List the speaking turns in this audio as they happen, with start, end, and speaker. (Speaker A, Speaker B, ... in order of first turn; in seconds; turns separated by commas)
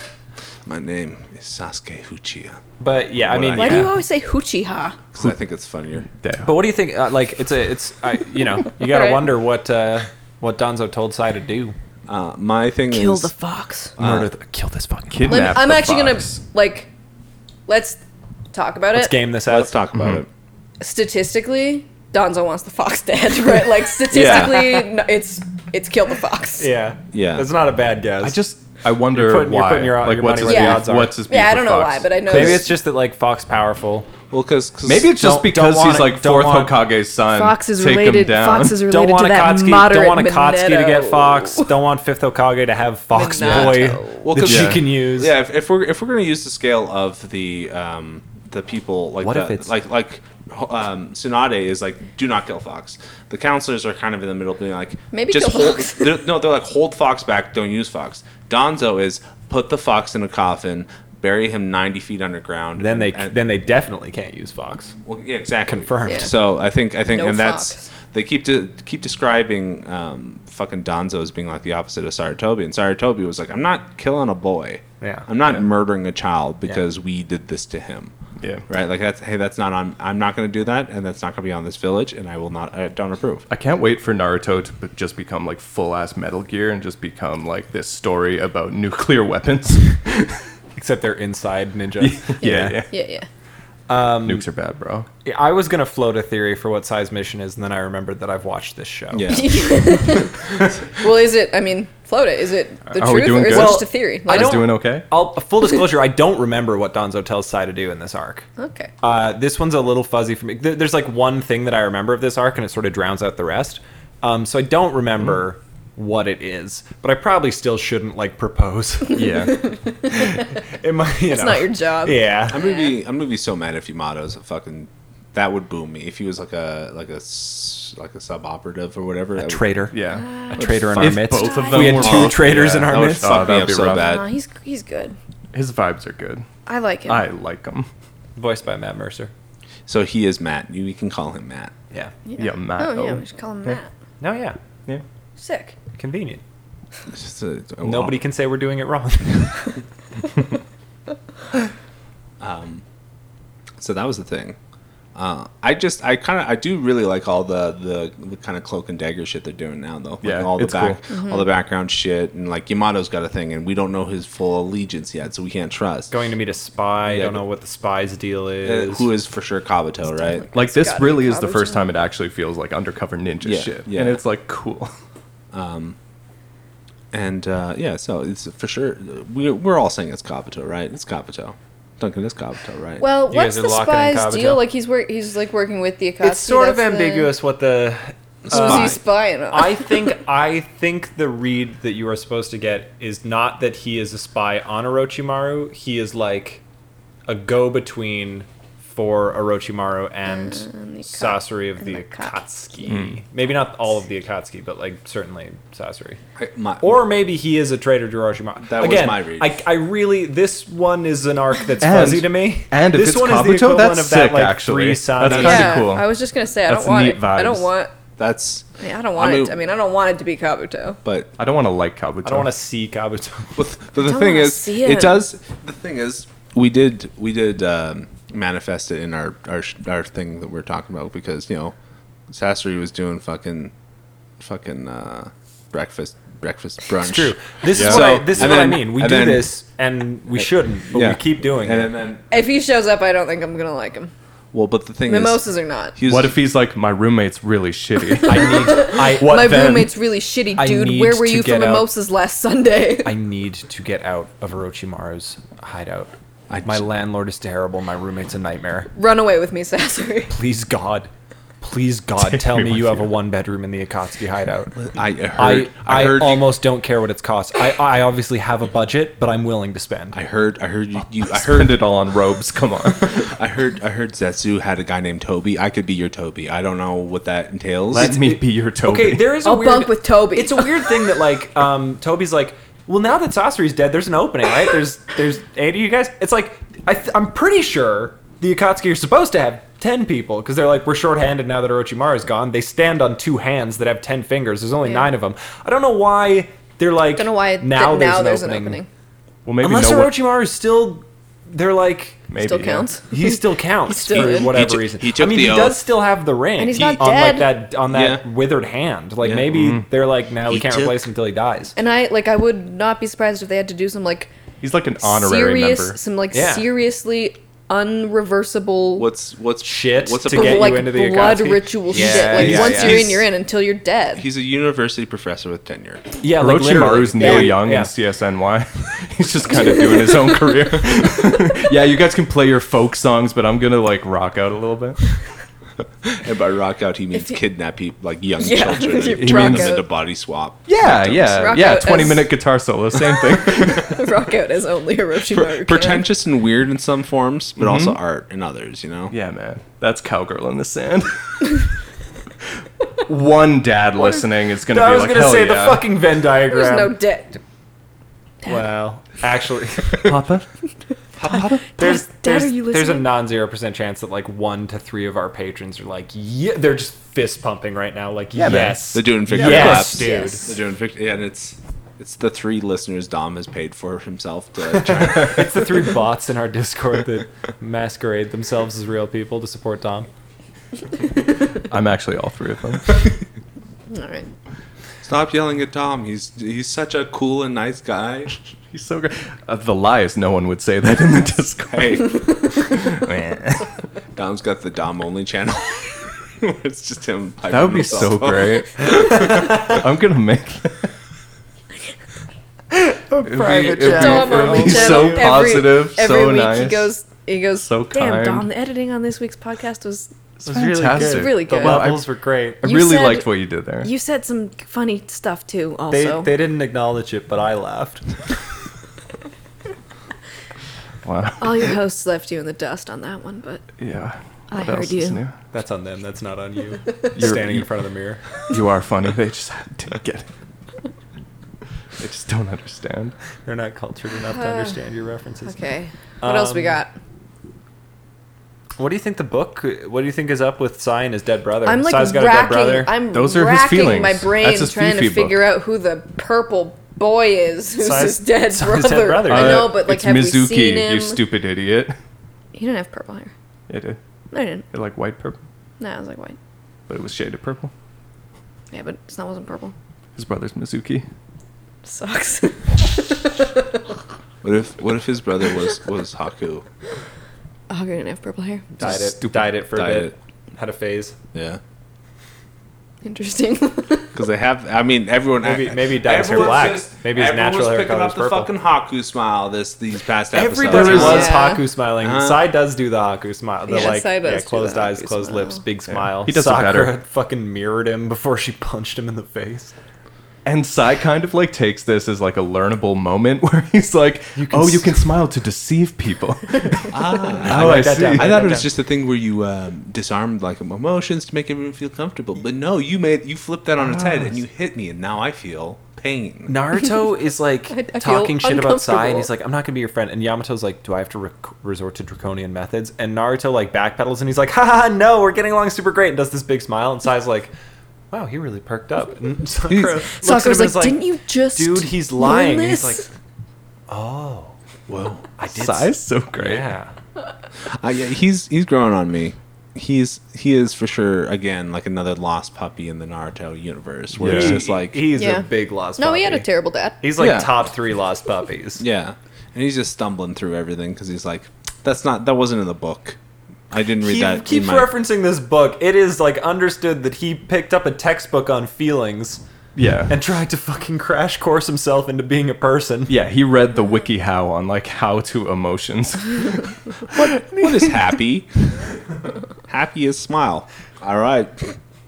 Speaker A: 0.7-2.6, Speaker B: 2.8-4.0, Speaker A: 3.2-3.9, Speaker C: 3.6-5.0, Speaker A: 5.1-6.1, Speaker D: 6.1-6.6, Speaker B: 6.5-11.8, Speaker C: 8.8-9.2, Speaker A: 12.1-13.3, Speaker C: 12.9-13.9, Speaker A: 14.0-14.3, Speaker B: 14.0-15.6, Speaker D: 15.1-16.4, Speaker C: 15.2-16.9, Speaker C: 17.7-18.0, Speaker C: 18.5-19.1, Speaker B: 18.9-19.8, Speaker A: 19.5-20.3, Speaker D: 19.9-20.2, Speaker C: 20.8-26.7, Speaker A: 24.1-24.8, Speaker B: 24.2-24.6, Speaker B: 26.6-28.4, Speaker A: 27.1-27.5, Speaker D: 28.2-32.5, Speaker B: 29.1-31.1, Speaker C: 30.4-32.7, Speaker B: 32.3-34.1, Speaker A: 34.3-35.1, Speaker D: 34.8-38.8, Speaker B: 35.1-36.8, Speaker C: 37.3-41.7, Speaker B: 38.8-45.3, Speaker C: 43.1-44.2, Speaker A: 43.4-63.4, Speaker D: 44.4-44.8, Speaker B: 49.2-49.7, Speaker C: 55.1-56.2, Speaker B: 62.8-65.0, Speaker A: 65.0-78.1, Speaker B: 65.7-66.3, Speaker C: 67.1-67.9, Speaker B: 75.0-75.3, Speaker D: 78.4-78.7, Speaker A: 78.7-83.5, Speaker D: 83.5-90.3, Speaker B: 90.8-92.8, Speaker D: 92.0-92.9, Speaker C: 92.9-93.3, Speaker B: 93.9-94.5, Speaker D: 94.2-95.1, Speaker B: 95.2-99.5, Speaker A: 99.1-99.8, Speaker C: 99.3-100.4, Speaker C: 101.0-104.6, Speaker D: 103.0-105.1, Speaker B: 103.5-108.5, Speaker C: 108.6-108.9, Speaker B: 109.0-119.5, Speaker D: 119.2-119.6, Speaker B: 120.0-122.6, Speaker C: 121.3-123.0, Speaker A: 122.5-129.7, Speaker B: 129.4-129.9, Speaker D: 129.9-134.1, Speaker C: 130.1-132.1, Speaker B: 130.5-133.6, Speaker A: 130.7-131.2, Speaker A: 131.9-134.2, Speaker C: 133.8-135.2, Speaker D: 135.5-136.5, Speaker C: 136.7-137.2, Speaker D: 137.1-137.9, Speaker B: 138.4-139.3, Speaker A: 139.9-141.7, Speaker C: 142.3-143.9, Speaker D: 142.4-143.8, Speaker B: 144.2-144.6, Speaker C: 145.4-145.8, Speaker B: 145.9-146.4, Speaker A: 147.1-148.2, Speaker B: 147.8-149.8, Speaker A: 152.4-152.8, Speaker A: 153.8-154.6, Speaker A: 155.2-166.1, Speaker D: 160.2-161.0, Speaker C: 161.1-161.5, Speaker B: 166.1-169.1, Speaker A: 167.1-167.4, Speaker A: 168.6-170.5, Speaker C: 170.1-171.9, Speaker D: 170.5-174.9, Speaker A: 173.4-174.2, Speaker A: 175.5-176.0, Speaker A: 177.1-183.1, Speaker C: 183.0-187.3, Speaker B: 183.3-184.6, Speaker B: 186.2-196.6, Speaker A: 188.4-189.0, Speaker C: 188.5-190.0, Speaker B: 197.3-206.2, Speaker C: 200.3-202.3, Speaker D: 202.9-203.2, Speaker A: 206.4-207.1, Speaker B: 206.8-215.9, Speaker A: 208.6-209.6, Speaker D: 211.8-216.1, Speaker C: 215.2-217.9, Speaker D: 216.7-217.7, Speaker A: 218.2-219.6, Speaker C: 218.8-221.0, Speaker A: 221.0-221.3, Speaker D: 221.4-222.5, Speaker B: 222.2-223.7, Speaker A: 223.6-231.8, Speaker C: 224.0-225.2, Speaker A: 232.3-233.7, Speaker A: 234.4-239.6, Speaker B: 237.0-241.9, Speaker D: 237.7-238.5, Speaker A: 240.3-242.2, Speaker C: 242.3-244.1, Speaker A: 244.5-246.4, Speaker C: 245.1-246.0, Speaker D: 246.1-249.9, Speaker C: 248.2-253.1, Speaker B: 248.2-249.7, Speaker B: 250.6-251.9, Speaker B: 253.1-256.1, Speaker A: 256.5-256.9, Speaker B: 256.6-258.9, Speaker C: 258.9-260.3, Speaker B: 260.3-261.1, Speaker B: 261.6-270.2, Speaker D: 262.2-263.1, Speaker A: 264.8-266.5, Speaker A: 270.1-271.8, Speaker D: 271.3-273.2, Speaker A: 273.1-278.1, Speaker D: 277.9-279.4, Speaker B: 277.9-298.8, Speaker C: 279.4-281.1, Speaker C: 294.8-295.1, Speaker C: 297.2-298.9, Speaker D: 299.4-300.1, Speaker B: 299.6-302.3, Speaker D: 302.3-302.9, Speaker C: 302.4-304.5, Speaker B: 303.1-311.8, Speaker A: 304.1-305.8, Speaker C: 306.6-307.6, Speaker A: 307.9-308.2, Speaker A: 309.2-309.5, Speaker D: 309.5-309.9, Speaker A: 310.5-311.1, Speaker C: 311.8-314.3, Speaker D: 314.6-316.0, Speaker C: 315.0-319.1, Speaker B: 316.3-316.7, Speaker A: 319.0-320.9, Speaker B: 319.6-323.2, Speaker C: 320.3-324.2, Speaker A: 321.9-323.3, Speaker A: 324.2-326.1, Speaker B: 326.2-327.9, Speaker D: 326.4-335.0, Speaker C: 327.1-327.6, Speaker C: 329.7-330.2, Speaker A: 336.0-340.6, Speaker C: 337.1-337.4, Speaker C: 338.4-339.8, Speaker B: 339.1-339.8, Speaker D: 340.7-344.1, Speaker C: 340.8-342.3, Speaker C: 343.1-346.1, Speaker A: 345.3-349.1, Speaker D: 347.6-348.0, Speaker D: 349.1-351.6, Speaker D: 353.1-355.9, Speaker B: 354.6-356.9, Speaker C: 356.5-357.4, Speaker B: 358.4-360.3, Speaker D: 360.0-360.5, Speaker D: 361.2-361.6, Speaker C: 361.3-363.1, Speaker B: 361.3-370.5, Speaker D: 368.4-369.8, Speaker A: 368.9-375.5, Speaker C: 369.4-370.6, Speaker B: 374.7-380.1, Speaker D: 381.6-383.0, Speaker C: 383.9-384.3, Speaker A: 385.0-388.3, Speaker D: 388.7-393.7, Speaker A: 391.7-392.8, Speaker A: 394.2-399.5, Speaker D: 397.5-400.9, Speaker B: 402.7-405.4, Speaker D: 403.2-406.9, Speaker C: 403.8-410.1, Speaker D: 407.6-408.5, Speaker D: 410.4-412.1, Speaker B: 410.4-412.6, Speaker C: 410.9-412.0, Speaker D: 412.6-413.9, Speaker C: 412.6-416.3, Speaker B: 415.9-418.1, Speaker D: 421.0-421.7, Speaker C: 421.4-423.6, Speaker D: 423.8-425.4, Speaker C: 424.5-425.2, Speaker B: 425.5-428.2, Speaker D: 427.1-427.7, Speaker D: 428.5-430.3, Speaker D: 432.0-433.1, Speaker B: 433.5-435.6, Speaker C: 434.3-434.8, Speaker C: 435.4-436.9, Speaker B: 436.2-436.8, Speaker B: 438.8-442.9, Speaker C: 441.6-451.2, Speaker D: 443.1-445.5, Speaker B: 447.8-449.8, Speaker D: 449.3-452.0, Speaker C: 452.5-453.3, Speaker D: 453.7-454.0, Speaker C: 454.3-454.6, Speaker D: 454.7-455.4, Speaker C: 455.8-456.4, Speaker D: 456.9-457.7, Speaker C: 458.7-459.7, Speaker D: 460.2-461.1, Speaker C: 461.8-463.6, Speaker A: 464.4-466.6, Speaker C: 467.7-468.8, Speaker B: 468.8-471.1, Speaker D: 468.8-469.2, Speaker A: 469.7-470.1, Speaker A: 471.3-471.6, Speaker C: 473.0-474.1, Speaker A: 474.1-481.4, Speaker B: 475.4-478.5, Speaker B: 480.3-489.7, Speaker D: 480.7-481.4, Speaker C: 480.7-481.7, Speaker A: 482.0-482.4, Speaker C: 483.7-485.6, Speaker D: 485.9-486.9, Speaker D: 490.4-498.5, Speaker B: 494.4-495.1, Speaker B: 496.5-496.9, Speaker A: 496.9-506.6, Speaker B: 497.4-498.7, Speaker B: 506.5-517.5, Speaker C: 507.7-509.3, Speaker B: 518.1-523.1, Speaker C: 520.1-523.0, Speaker B: 523.9-524.5, Speaker A: 524.9-525.2, Speaker B: 525.4-526.9, Speaker D: 525.5-526.7, Speaker A: 527.7-535.1, Speaker D: 534.2-534.6, Speaker B: 534.2-536.5, Speaker C: 535.1-537.0, Speaker B: 537.0-538.8, Speaker A: 537.2-537.5, Speaker A: 538.8-543.2, Speaker A: 543.7-544.9, Speaker B: 544.0-549.4, Speaker D: 549.8-550.1, Speaker B: 550.1-553.1, Speaker D: 553.1-556.8, Speaker A: 557.1-558.9, Speaker B: 557.2-558.0, Speaker A: 559.7-561.7